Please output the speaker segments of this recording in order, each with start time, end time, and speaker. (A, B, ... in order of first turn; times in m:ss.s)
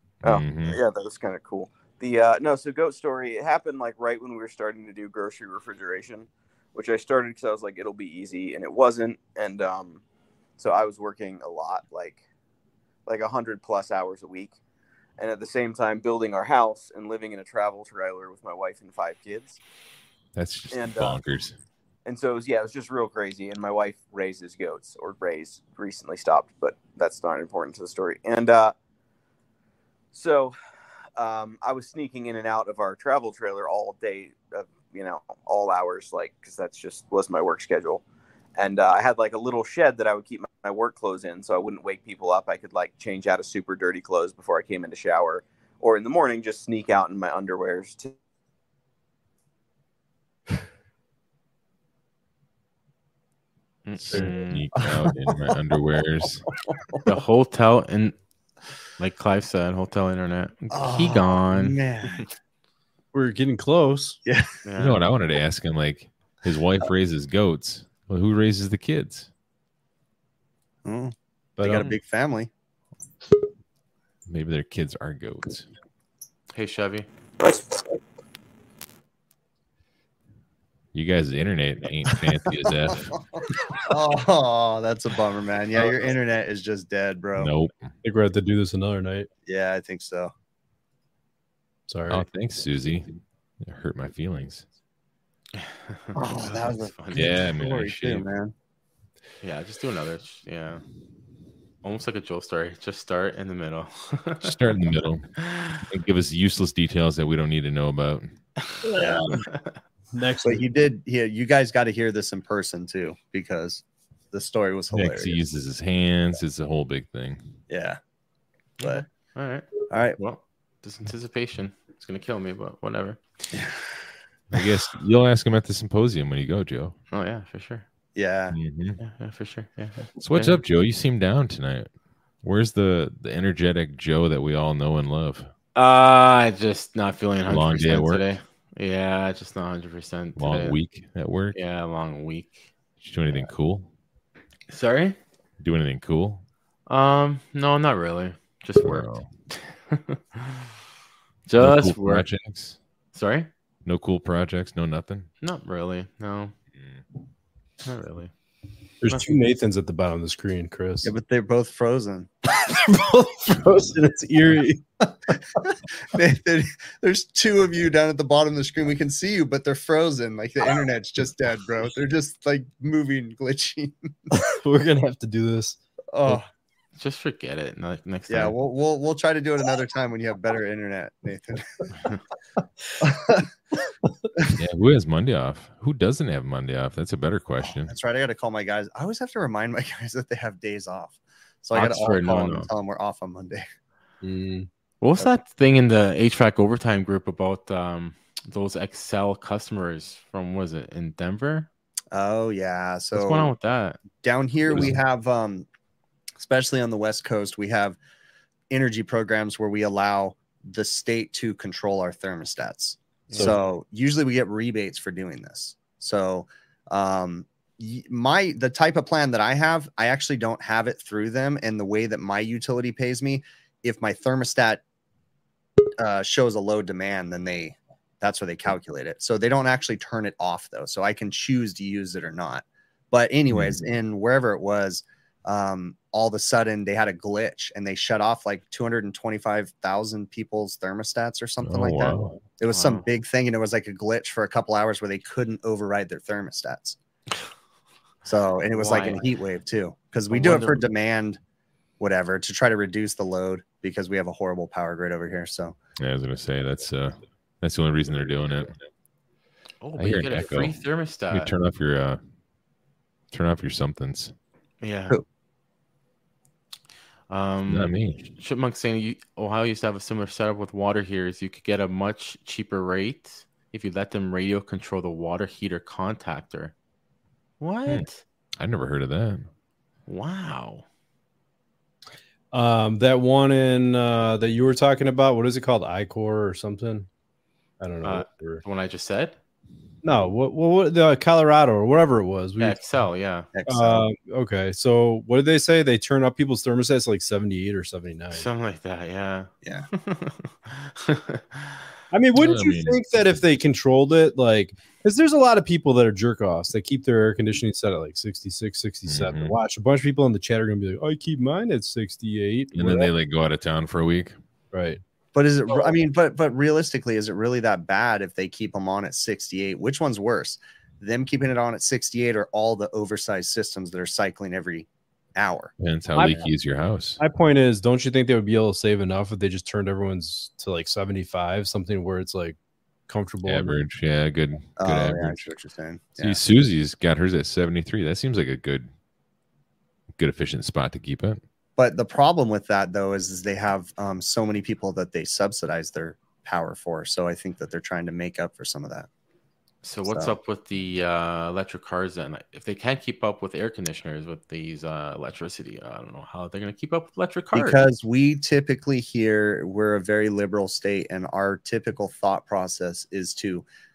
0:00.2-0:00.8 A
0:00.2-0:10.0 B
0:10.6-0:12.2 B
0:13.0-0:14.6 B
0:15.2-0:19.6 B
0:20.4-0:21.6 A
0:20.7-0:21.2 B
0:22.0-0:28.7 B
0:30.1-0:30.5 B
0:31.2-0:38.0 B
0:38.6-0:48.1 B
0:53.8-0:54.6 C
0:54.0-0:56.5 A
0:54.8-0:55.3 D
0:56.7-0:57.1 D
0:57.0-0:58.1 C
0:59.0-1:01.8 C
1:00.7-1:02.3 D
1:03.1-1:04.2 E
1:04.6-1:05.0 C
1:04.8-1:09.3 A
1:10.8-1:12.5 D
1:11.6-1:11.9 E
1:14.3-1:15.7 A
1:16.5-1:17.1 C
1:20.9-1:23.2 A
1:23.8-1:27.5 D
1:27.4-1:27.9 A
1:28.0-1:29.3 E
1:29.4-1:30.3 D
1:31.9-1:32.2 E
1:32.1-1:34.6 A
1:35.6-1:37.3 C
1:36.1-1:38.5 D
1:37.1-1:38.3 A
1:39.4-1:40.8 C
1:41.8-1:44.6 C
1:44.4-1:45.3 A
1:45.4-1:45.8 C
1:45.8-1:48.4 A
1:48.8-1:49.7 C
1:49.0-1:49.4 D
1:50.1-1:50.6 E
1:50.4-1:55.4 D
1:54.9-1:57.6 A
1:57.7-1:58.0 D
1:58.8-2:03.2 C
1:58.8-1:59.0 D
1:59.9-2:00.2 D
2:03.5-2:03.8 D
2:04.5-2:07.0 A
2:07.1-2:07.8 C
2:08.1-2:08.6 D
2:08.5-2:09.0 A
2:09.0-2:10.6 C
2:10.2-2:11.9 A
2:12.4-2:15.5 A
2:15.7-2:20.8 C
2:17.5-2:18.2 A
2:20.4-2:21.6 A
2:21.5-2:22.6 C
2:23.0-2:23.9 A
2:24.7-2:25.2 C
2:25.6-2:26.4 A
2:26.9-2:30.7 C
2:28.8-2:29.3 A
2:31.5-2:32.3 C
2:31.6-2:32.8 A
2:33.1-2:33.5 C
2:33.8-2:35.3 A
2:35.4-2:36.5 C
2:36.8-2:37.0 A
2:37.8-2:38.3 C
2:39.0-2:41.1 E
2:41.0-2:42.3 D
2:42.5-2:45.3 E
2:46.1-2:54.3 D
2:54.3-2:56.4 E
2:56.1-2:56.4 D
2:57.0-2:58.6 C
2:58.3-3:01.9 D
3:03.0-3:03.5 D
3:04.6-3:07.9 A
3:07.6-3:13.6 D
3:11.7-3:12.7 C
3:14.2-3:14.7 E
3:15.0-3:21.7 C
3:22.1-3:23.5 D
3:23.1-3:24.0 C
3:24.2-3:25.7 D
3:26.4-3:28.0 D
3:28.7-3:44.8 D
3:33.3-3:33.6 C
3:46.0-4:07.0 D
3:53.5-3:53.8 A
4:01.6-4:02.4 A
4:02.7-4:03.0 C
4:08.2-4:11.4 D
4:08.7-4:09.2 C
4:10.3-4:10.8 C
4:12.0-4:15.8 D
4:16.0-4:18.8 A
4:19.8-4:21.5 C
4:20.0-4:20.8 A
4:21.3-4:22.2 A
4:23.3-4:24.3 A
4:24.8-4:25.2 C
4:27.3-4:36.7 C
4:27.7-4:28.3 A
4:37.6-4:38.2 C
4:38.6-4:39.5 A
4:40.1-4:40.8 C
4:42.5-4:47.1 E
4:47.8-4:48.6 E
4:48.0-4:49.4 C
4:50.0-4:52.8 E
4:52.6-4:53.5 C
4:53.5-4:54.0 D
4:53.7-4:58.5 E
4:58.3-5:01.9 C
5:02.1-5:13.1 E
5:02.3-5:03.0 A
5:09.0-5:09.6 A
5:12.7-5:14.4 A
5:14.7-5:15.0 E
5:15.3-5:25.7 D
5:25.8-5:27.2 A
5:27.2-5:33.8 E
5:33.4-5:35.5 A
5:34.8-5:36.4 D
5:36.2-5:38.9 A
5:40.2-5:41.4 A
5:41.8-5:49.1 D
5:49.8-5:57.8 C
5:50.1-5:50.3 D
5:57.5-6:03.6 D